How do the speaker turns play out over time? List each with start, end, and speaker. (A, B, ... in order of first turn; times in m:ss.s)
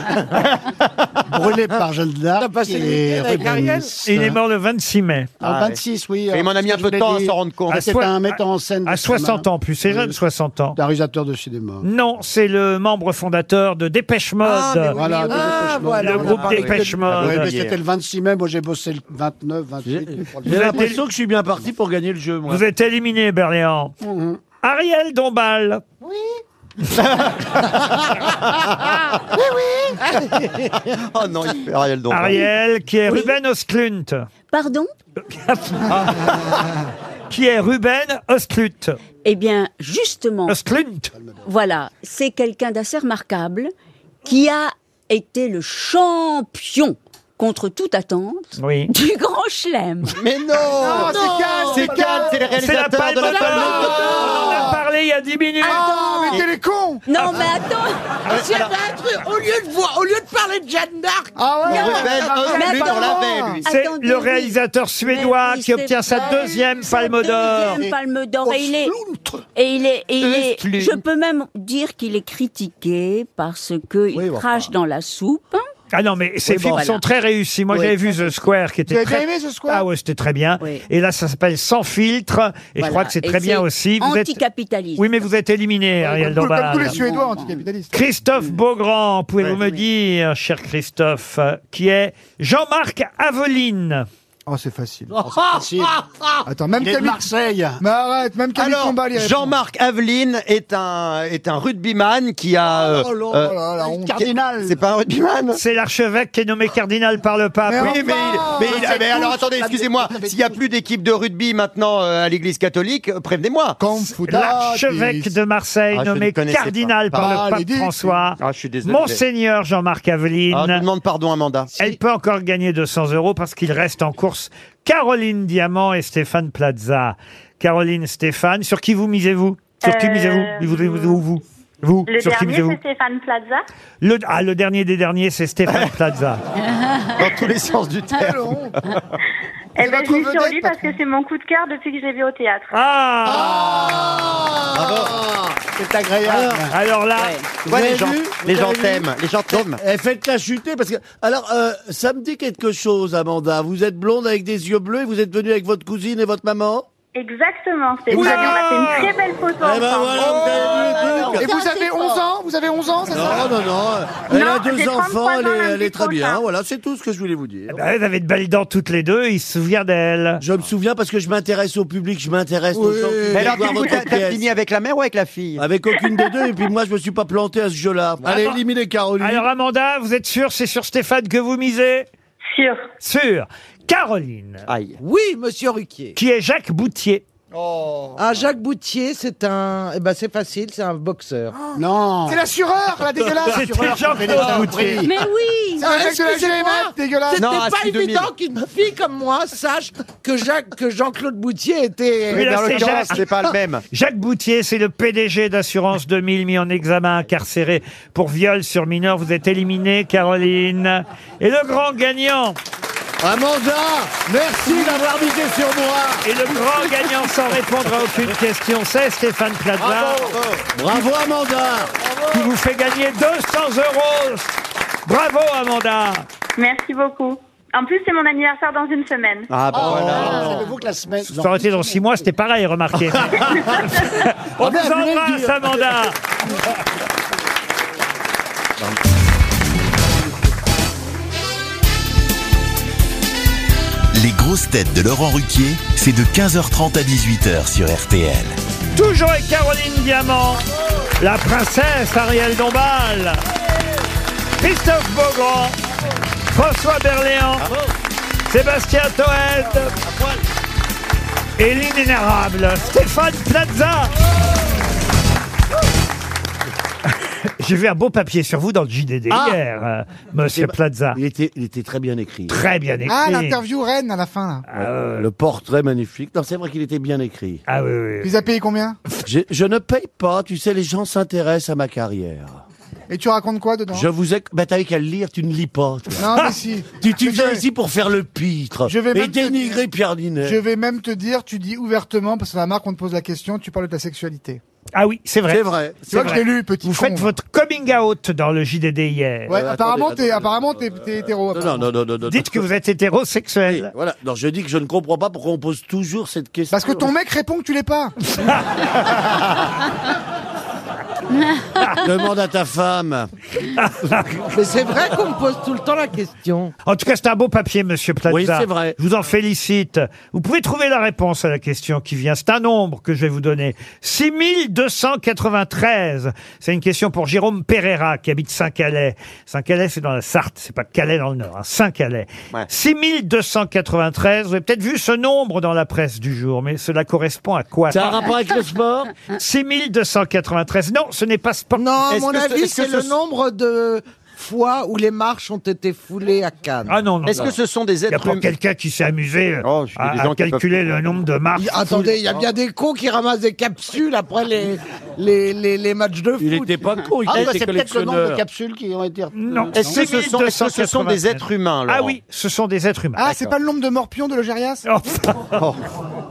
0:01.3-0:04.4 A
0:02.4-0:04.0 B
0:04.0-0:05.3 C
0:05.4-0:10.2 A
0:05.4-0:05.8 D
0:06.3-0:07.9 D
0:07.7-0:10.8 C
0:10.7-0:11.8 A
0:11.8-0:15.0 C
0:14.5-0:15.7 D
0:14.8-0:17.0 B
0:14.9-0:20.8 A
0:16.0-0:17.5 C
0:16.3-0:17.8 D
0:19.8-0:22.6 E
0:20.5-0:21.0 C
0:22.5-0:23.9 C
0:24.0-0:24.4 A
0:24.6-0:25.8 C
0:26.9-0:29.4 D
0:30.4-0:32.4 D
0:32.1-0:34.3 C
0:33.1-0:33.3 F
0:34.5-0:34.9 F
0:35.2-0:36.5 C
0:37.3-0:39.0 C
0:39.2-0:40.6 F
0:40.5-0:41.1 C
0:41.4-0:43.7 F
0:44.2-0:50.2 F
0:48.6-0:48.9 C
0:50.2-0:54.6 D
0:50.7-0:52.5 G
0:52.5-0:55.9 C
0:53.5-0:54.8 G
0:53.9-0:54.4 B
0:55.6-0:56.4 F
0:55.6-0:57.1 G
0:57.0-0:58.1 F
0:58.3-0:58.7 D
0:58.3-1:01.3 B
1:01.3-1:03.6 G
1:01.7-1:03.6 D
1:01.7-1:08.9 F
1:02.0-1:02.3 B
1:03.6-1:07.8 C
1:08.4-1:09.4 A
1:09.5-1:15.6 F
1:10.2-1:11.0 D
1:14.1-1:14.7 E
1:15.9-1:24.4 C
1:16.5-1:17.0 F
1:17.7-1:18.4 F
1:18.9-1:19.8 G
1:20.6-1:20.8 F
1:22.8-1:25.2 F
1:25.0-1:27.0 C
1:26.0-1:27.9 G
1:26.9-1:27.6 F
1:27.9-1:34.1 C
1:29.6-1:29.8 F
1:34.5-1:35.1 G
1:35.2-1:36.0 A
1:35.3-1:35.6 E
1:36.4-1:37.3 G
1:36.8-1:37.8 A
1:37.8-1:39.6 G
1:38.6-1:43.6 D
1:42.8-1:43.3 E
1:43.3-1:44.3 G
1:43.9-1:44.8 A
1:44.3-1:45.6 D
1:45.5-1:48.0 C
1:47.7-1:50.0 G
1:47.8-1:53.8 D
1:48.7-1:50.6 A
1:53.8-1:55.3 G
1:54.0-2:00.8 C
1:55.9-1:57.4 D
1:57.2-1:58.2 G
1:58.4-1:59.2 D
2:00.5-2:01.7 D
2:01.8-2:12.8 C
2:09.8-2:11.2 H
2:12.1-2:13.6 H
2:14.0-2:16.4 C
2:17.2-2:19.0 D
2:18.2-2:18.7 G
2:19.8-2:22.7 H
2:19.8-2:21.0 G
2:22.7-2:23.8 C
2:23.2-2:24.6 G
2:24.0-2:26.7 E
2:26.2-2:26.6 A
2:26.7-2:27.4 C
2:27.2-2:27.5 F
2:27.6-2:36.8 E
2:27.6-2:29.8 D
2:37.1-2:41.2 H
2:38.1-2:38.7 G
2:38.1-2:39.1 C
2:39.6-2:41.5 E
2:40.1-2:43.6 G
2:41.4-2:42.3 F
2:43.1-2:47.8 E
2:44.3-2:46.4 H
2:47.7-2:50.4 C
2:50.4-2:54.5 E
2:53.3-2:54.0 G
2:53.3-2:55.7 D
2:55.6-2:59.4 E
2:58.2-2:58.6 C
2:59.2-3:02.1 C
3:02.5-3:02.8 H
3:03.0-3:04.7 C
3:04.7-3:05.0 D
3:05.0-3:06.2 B
3:06.1-3:07.2 C
3:07.5-3:08.2 G
3:08.2-3:11.6 B
3:11.7-3:12.4 A
3:12.2-3:15.0 G
3:13.4-3:15.1 A
3:13.5-3:15.0 C
3:15.0-3:15.9 F
3:15.8-3:17.4 G
3:15.8-3:23.0 B
3:17.3-3:18.3 D
3:22.3-3:23.8 D
3:22.3-3:23.2 C
3:23.9-3:32.6 C
3:33.2-3:36.2 E
3:36.2-3:40.3 C
3:40.3-3:40.6 D
3:40.7-3:41.9 E
3:42.3-3:44.5 C
3:45.0-3:46.2 C
3:46.6-3:49.5 H
3:49.5-3:50.6 D
3:49.7-3:51.9 A
3:49.8-3:50.7 E
3:51.3-3:56.2 C
3:54.6-3:55.8 A
4:04.1-4:08.6 I
4:08.9-4:10.6 C
4:11.2-4:13.4 C
4:14.6-4:15.8 C
4:16.5-4:17.7 C
4:17.6-4:17.9 E
4:18.5-4:19.9 C
4:20.0-4:20.3 E
4:21.6-4:24.1 C
4:27.6-4:31.2 C
4:29.3-4:29.6 E
4:30.5-4:32.6 E
4:32.5-4:33.6 C
4:33.1-4:34.7 G
4:34.7-4:35.3 C
4:34.8-4:37.6 E
4:37.7-4:38.3 C
4:38.2-4:39.0 G
4:39.2-4:42.6 E
4:43.1-4:44.1 G
4:43.9-4:50.6 E
4:46.1-4:47.6 G
4:48.8-4:49.8 G
4:50.4-4:54.6 G
4:54.9-4:59.6 C
4:55.5-4:56.4 E
4:56.1-4:57.3 G
4:59.5-5:01.9 G
4:59.5-5:02.6 E
5:02.2-5:03.9 C
5:03.7-5:07.1 E
5:06.7-5:08.1 G
5:12.0-5:13.3 E
5:13.8-5:14.4 C
5:14.5-5:16.7 B
5:16.8-5:38.3 C
5:18.3-5:19.0 E
5:37.9-5:39.1 E
5:39.3-5:41.9 C
5:41.8-5:47.0 B
5:42.1-5:43.1 D
5:46.9-5:47.5 C
5:47.2-5:48.5 D
5:48.1-5:52.1 C
5:49.6-5:50.9 D
5:51.6-5:56.8 B
5:56.4-5:58.4 E
5:57.3-5:59.9 A
5:57.3-5:57.6 D
5:59.3-6:03.3 C
5:59.7-6:02.2 D
6:03.2-6:04.8 G
6:04.8-6:05.6 C
6:05.5-6:05.8 D